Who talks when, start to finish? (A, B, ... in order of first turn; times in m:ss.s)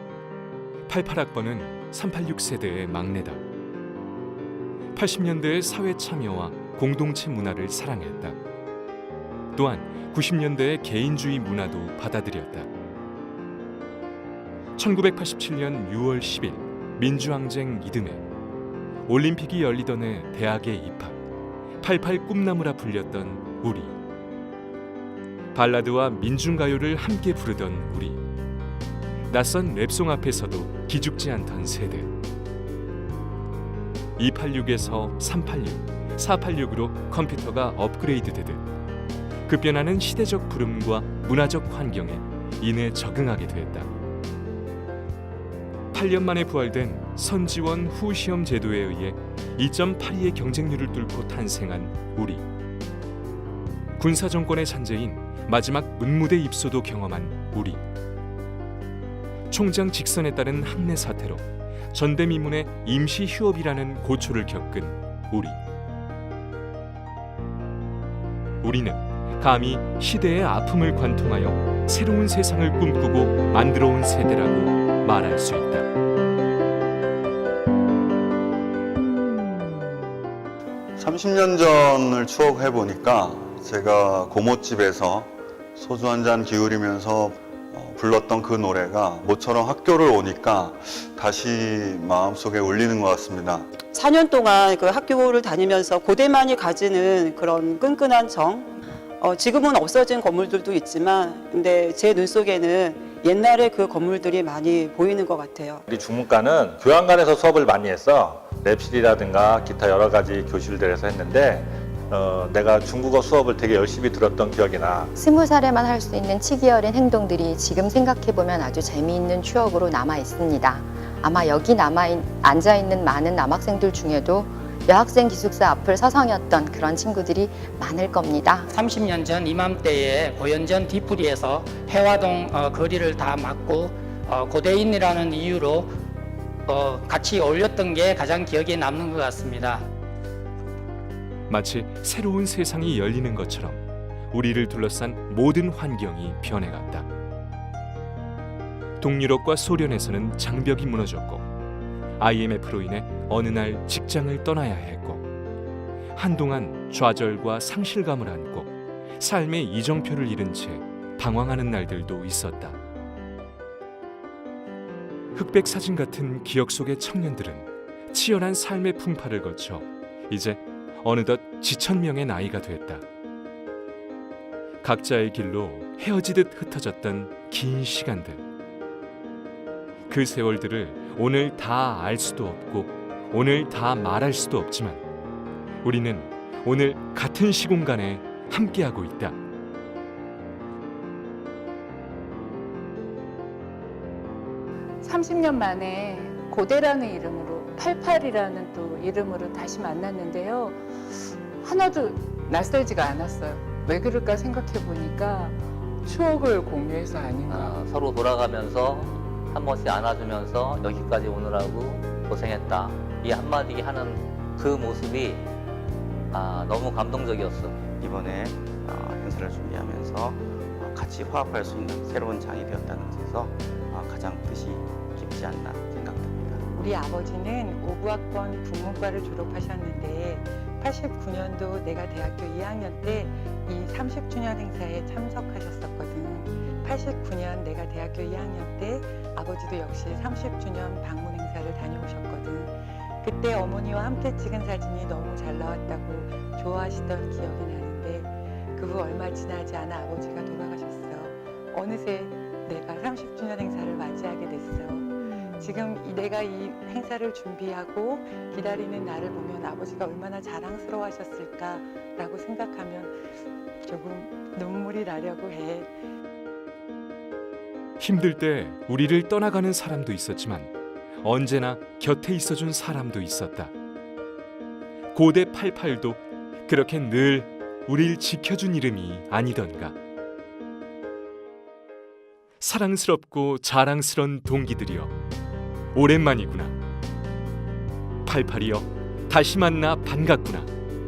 0:00.9-0:03.4 A
0:04.9-0:08.4 A
0:09.5-0:12.7 A
0:14.8-0:18.2 A
0:19.1-0:21.1 A
0:21.8-0:23.9 A
0:25.5-0:28.2 A
0:29.3-0:32.1 A
0:34.2-0:38.6 A
0:39.5-0:43.9 A
0:45.9-0:52.4 A
0:54.0-0:57.8 A
0:59.5-1:01.4 A
1:01.9-1:05.5 A
1:08.6-1:15.8 A
1:21.0-1:33.7 B
1:33.8-1:45.8 C
1:45.9-1:55.1 D
1:55.2-2:08.7 E
2:08.7-2:15.9 F
2:16.6-2:19.8 F
2:21.5-2:23.8 A
2:24.3-2:27.0 A
2:29.0-2:31.4 A
2:32.2-2:35.2 A
2:36.1-2:38.7 A
2:39.2-2:42.8 A
2:45.3-2:53.0 A
2:54.8-2:58.4 A
3:00.1-3:05.0 A
3:05.8-3:09.3 A
3:15.0-3:20.8 G
3:21.6-3:27.8 G
3:27.5-3:35.5 H
3:36.3-3:37.8 H
3:37.9-3:46.6 I
3:46.7-4:26.1 J
4:28.0-4:30.7 A
4:31.2-4:33.7 A
4:35.1-4:39.9 A
4:42.6-4:45.1 A
4:45.9-4:46.7 A
4:48.2-4:50.7 A